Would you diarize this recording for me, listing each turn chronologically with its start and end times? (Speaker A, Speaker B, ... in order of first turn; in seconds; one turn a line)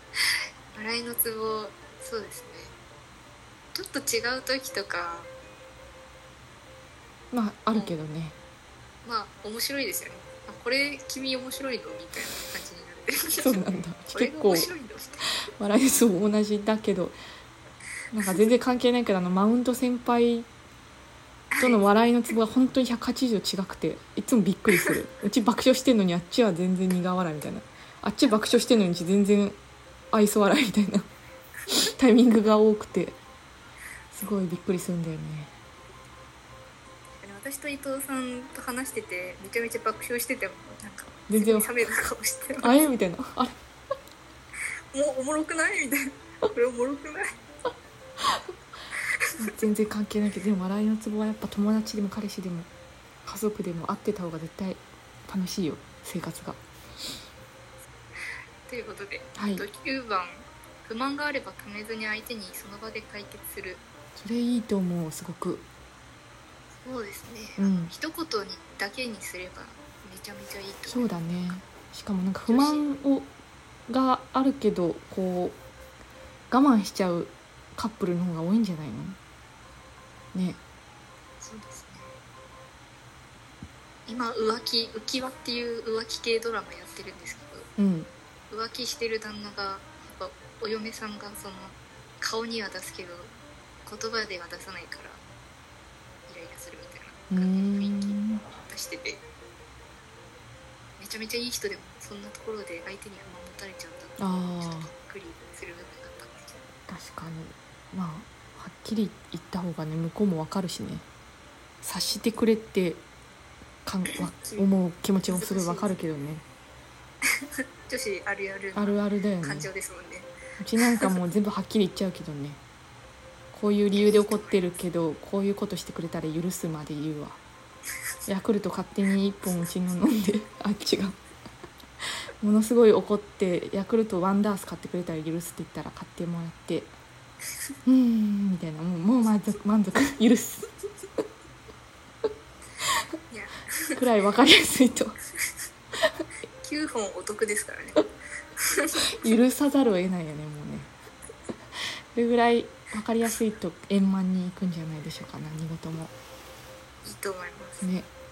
Speaker A: 0.7-2.7
Speaker A: 3.7-5.3
Speaker B: 7.3-8.3
Speaker A: 9.0-15.2
Speaker B: 13.4-14.7
Speaker B: 15.6-17.1
Speaker B: 18.1-20.5
Speaker A: 21.5-22.3
Speaker B: 21.6-29.6
Speaker B: 30.1-31.1
Speaker B: 31.7-33.2
Speaker B: 34.1-35.5
Speaker A: 37.2-42.8
Speaker B: 41.3-41.7
Speaker B: 42.6-43.5
Speaker A: 44.9-47.2
Speaker B: 49.4-52.7
Speaker B: 53.2-56.6
Speaker A: 58.7-63.8
Speaker B: 59.3-59.6
Speaker B: 64.2-65.6
Speaker A: 66.8-71.5
Speaker B: 67.6-67.9
Speaker B: 70.9-73.3
Speaker A: 72.5-72.8
Speaker B: 73.9-75.6
Speaker B: 76.5-79.2
Speaker B: 80.3-80.6
Speaker A: 81.4-82.2
Speaker A: 84.1-87.7
Speaker B: 87.8-88.1
Speaker A: 88.5-93.3
Speaker A: 93.8-95.2
Speaker A: 96.3-99.2
Speaker B: 97.3-98.5
Speaker A: 101.0-106.7
Speaker B: 104.2-104.9
Speaker B: 106.9-111.0
Speaker B: 111.8-113.0
Speaker B: 113.8-116.4
Speaker A: 114.3-114.7
Speaker A: 115.3-116.0
Speaker A: 117.9-120.3
Speaker B: 118.7-119.7
Speaker B: 120.6-122.6
Speaker B: 123.5-127.4
Speaker A: 123.9-124.8
Speaker B: 128.3-131.2
Speaker B: 132.4-136.9
Speaker B: 137.8-140.7
Speaker A: 143.3-144.0
Speaker B: 143.9-145.2
Speaker A: 146.6-148.0
Speaker A: 148.6-149.0
Speaker B: 149.1-150.9
Speaker B: 152.1-156.1
Speaker A: 157.0-157.9
Speaker B: 157.8-158.1